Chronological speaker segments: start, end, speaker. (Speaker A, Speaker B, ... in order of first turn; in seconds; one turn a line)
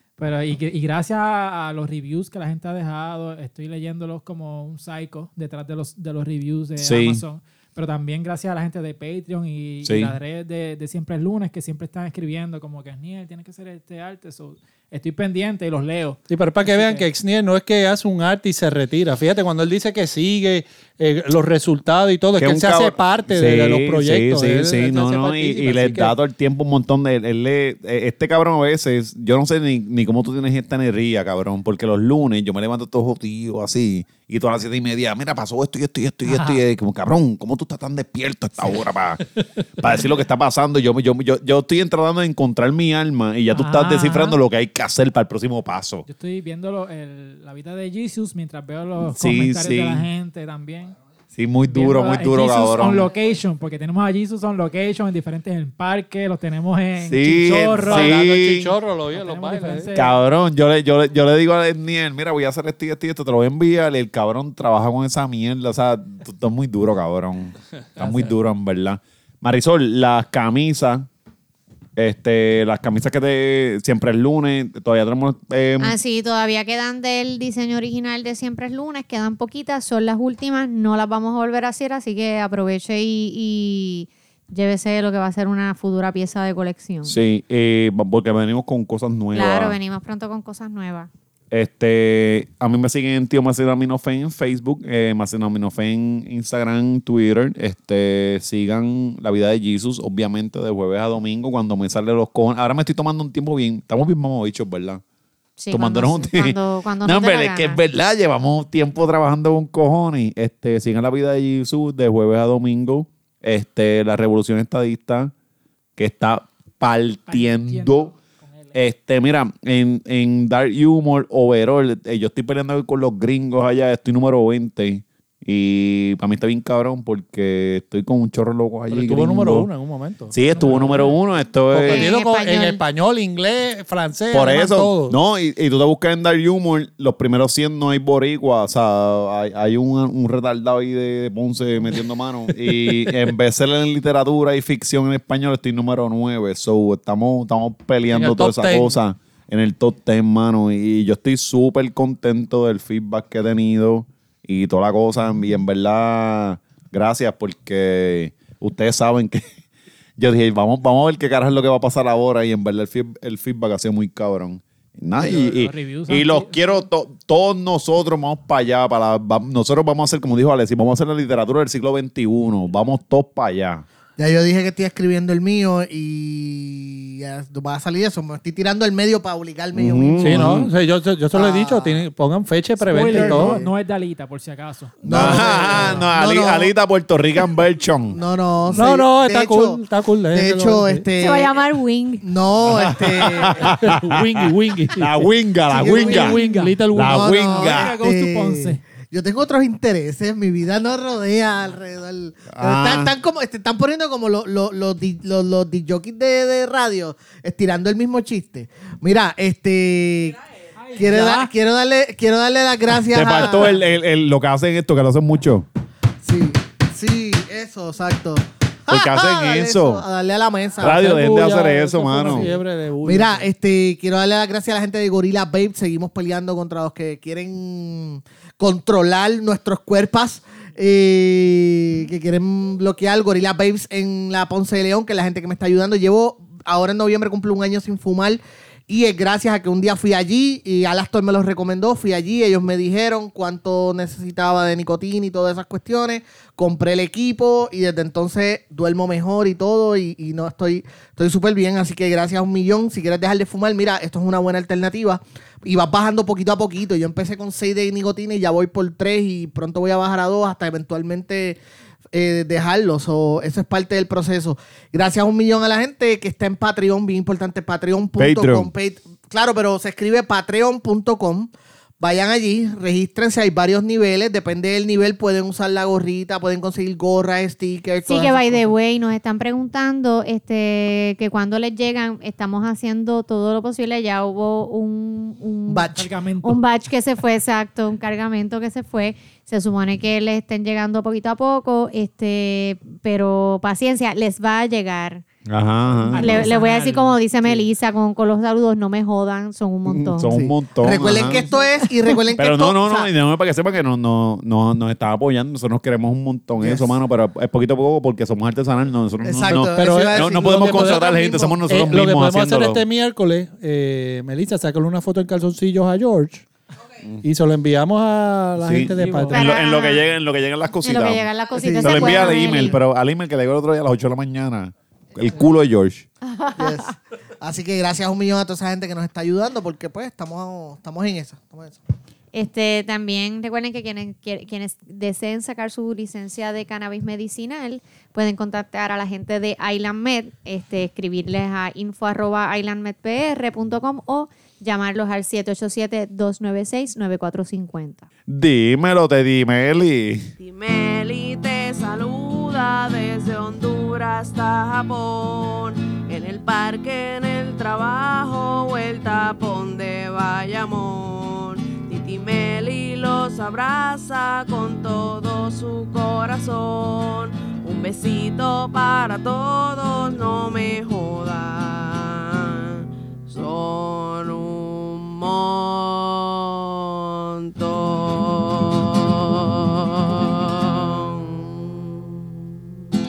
Speaker A: 0.2-17.1
Speaker B: 6.8-7.2
Speaker B: 9.8-10.1
Speaker C: 16.3-26.1
Speaker B: 22.4-46.0
Speaker A: 36.3-36.6
Speaker A: 43.5-44.4
Speaker A: 46.0-51.0
Speaker B: 49.1-50.0
Speaker B: 51.3-53.1
Speaker A: 51.6-58.3
Speaker B: 57.0-58.7
Speaker C: 57.4-59.9
Speaker A: 59.1-60.1
Speaker B: 59.9-71.1
Speaker B: 72.0-76.0
Speaker D: 75.8-87.1
Speaker B: 87.0-89.8
Speaker D: 89.3-91.1
Speaker B: 91.5-105.0
Speaker D: 105.6-107.8
Speaker B: 105.7-115.3
Speaker B: 116.0-118.1
Speaker A: 117.3-118.7
Speaker B: 118.7-129.7
Speaker C: 128.9-131.1
Speaker B: 130.3-132.1
Speaker C: 131.7-135.2
Speaker D: 131.8-132.8
Speaker B: 134.3-159.4
Speaker C: 142.5-143.2
Speaker C: 148.1-149.0
Speaker B: 160.2-173.8
Speaker A: 165.2-166.8
Speaker E: 174.2-180.6
Speaker B: 179.7-180.7
Speaker C: 180.2-183.6
Speaker E: 181.3-182.0
Speaker A: 182.8-185.0
Speaker E: 182.9-183.7
Speaker E: 185.0-186.7
Speaker B: 185.1-188.2
Speaker E: 188.1-191.7
Speaker C: 188.7-191.1
Speaker D: 191.2-192.2
Speaker E: 192.2-193.8
Speaker B: 192.7-194.4
Speaker C: 193.8-197.3
Speaker B: 194.9-196.4
Speaker E: 195.8-196.4
Speaker A: 195.8-198.8
Speaker B: 196.9-197.9
Speaker E: 197.0-210.4
Speaker B: 202.5-203.1
Speaker A: 210.8-211.5
Speaker E: 210.9-213.8
Speaker B: 213.0-215.7
Speaker E: 216.2-221.0
Speaker B: 218.9-220.0
Speaker B: 220.8-222.5
Speaker C: 220.8-223.5
Speaker E: 223.0-261.6
Speaker E: 262.1-278.7
Speaker B: 268.2-268.7
Speaker D: 278.0-285.9
Speaker E: 285.7-286.1
Speaker A: 285.9-286.6
Speaker D: 286.4-295.2
Speaker B: 295.4-296.6
Speaker A: 296.1-297.1
Speaker D: 296.1-300.3
Speaker B: 299.9-301.4
Speaker E: 300.2-303.1
Speaker B: 302.4-312.8
Speaker E: 306.6-307.0
Speaker E: 309.2-311.6
Speaker C: 309.5-316.4
Speaker C: 317.2-319.4
Speaker B: 318.6-321.3
Speaker A: 319.0-319.4
Speaker D: 319.3-320.0
Speaker D: 320.8-322.8
Speaker E: 321.5-322.8
Speaker B: 321.8-326.1
Speaker D: 326.2-326.9
Speaker E: 326.6-331.8
Speaker D: 332.3-348.1
Speaker B: 348.3-350.3
Speaker F: 350.4-382.6